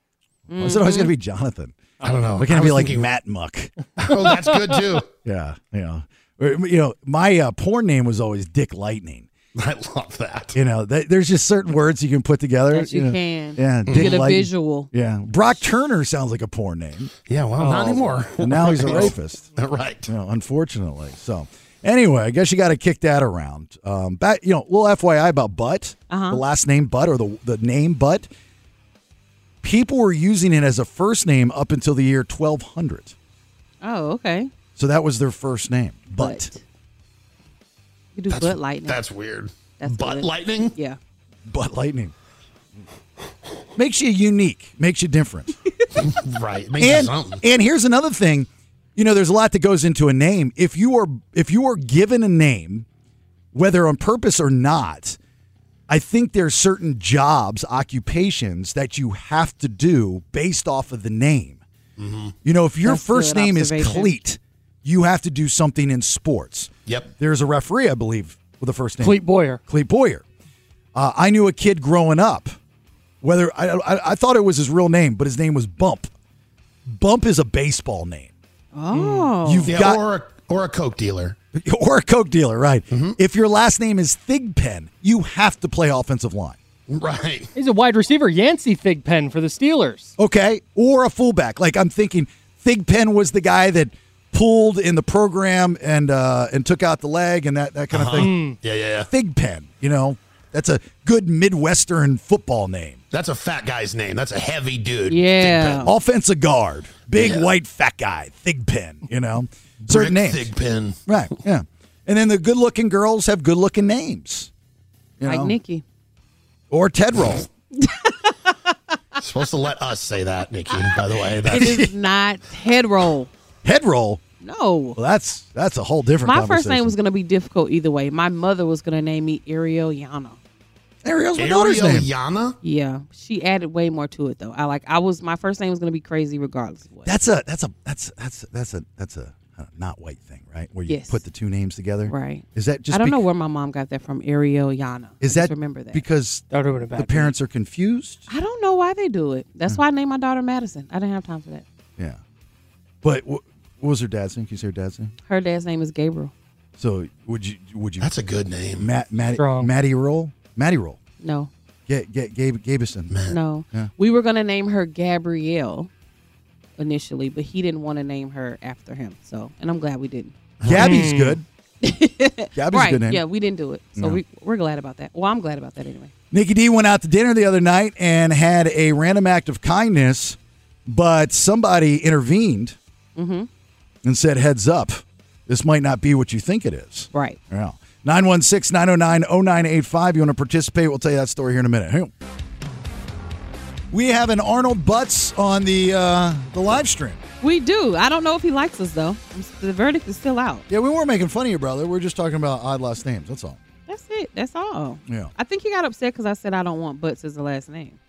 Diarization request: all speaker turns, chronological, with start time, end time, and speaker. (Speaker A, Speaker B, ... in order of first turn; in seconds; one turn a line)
Speaker A: 0.5-1.1
Speaker B: 0.6-1.8
Speaker C: 2.0-3.1
Speaker B: 2.4-3.7
Speaker C: 4.0-5.1
Speaker B: 5.2-9.3
Speaker C: 9.6-10.6
Speaker B: 10.5-17.1
Speaker A: 12.7-14.9
Speaker C: 13.9-14.2
Speaker C: 17.3-20.1
Speaker D: 17.6-18.1
Speaker B: 18.4-19.4
Speaker B: 20.1-28.3
Speaker A: 26.1-26.4
Speaker B: 29.6-33.1
Speaker A: 33.8-34.5
Speaker B: 34.8-36.5
Speaker A: 36.1-36.6
Speaker A: 38.1-39.0
Speaker C: 38.3-40.7
Speaker A: 39.8-41.0
Speaker B: 41.5-42.1
Speaker B: 43.8-45.5
Speaker C: 46.0-47.4
Speaker B: 46.8-52.9
Speaker B: 53.5-55.2
Speaker B: 55.9-61.6
Speaker C: 62.0-62.4
Speaker B: 62.4-70.2
Speaker A: 62.9-64.2
Speaker D: 69.0-69.6
Speaker B: 71.0-72.6
Speaker B: 73.2-76.1
Speaker B: 76.9-78.3
Speaker A: 78.8-79.7
Speaker D: 78.9-79.3
Speaker B: 79.5-80.0
Speaker C: 79.7-81.4
Speaker B: 81.5-86.6
Speaker C: 82.9-83.2
Speaker C: 86.9-87.5
Speaker D: 87.6-90.1
Speaker B: 90.2-98.3
Speaker C: 97.9-99.1
Speaker D: 98.2-98.6
Speaker B: 99.1-103.0
Speaker C: 103.1-105.9
Speaker A: 105.1-105.9
Speaker B: 105.8-110.5
Speaker C: 107.1-107.5
Speaker C: 109.9-111.0
Speaker B: 111.1-114.5
Speaker B: 115.2-115.5
Speaker A: 115.2-115.8
Speaker B: 116.7-117.5
Speaker A: 117.8-118.3
Speaker C: 119.2-121.8
Speaker A: 121.5-123.3
Speaker B: 121.5-121.9
Speaker B: 123.6-124.2
Speaker A: 124.4-125.0
Speaker B: 125.0-126.9
Speaker A: 126.2-130.4
Speaker B: 131.0-132.1
Speaker C: 131.4-132.6
Speaker A: 132.6-137.1
Speaker B: 137.1-143.2
Speaker A: 140.9-141.2
Speaker A: 142.1-146.0
Speaker B: 145.2-148.2
Speaker D: 146.5-147.3
Speaker A: 148.3-151.7
Speaker B: 153.0-155.1
Speaker A: 155.3-156.3
Speaker B: 156.8-158.1
Speaker C: 158.0-158.9
Speaker B: 158.8-161.0
Speaker D: 159.4-159.7
Speaker A: 161.2-161.5
Speaker B: 161.9-163.2
Speaker C: 163.1-163.4
Speaker A: 163.3-165.9
Speaker A: 166.8-170.3
Speaker C: 170.6-170.9
Speaker B: 170.6-171.4
Speaker D: 170.8-171.4
Speaker A: 171.8-176.1
Speaker B: 172.6-173.2
Speaker B: 176.3-182.8
Speaker A: 183.2-183.5
Speaker B: 184.0-192.1
Speaker A: 187.1-187.4
Speaker B: 193.9-197.2
Speaker A: 197.4-200.7
Speaker B: 200.7-203.6
Speaker A: 203.9-208.0
Speaker B: 205.1-205.3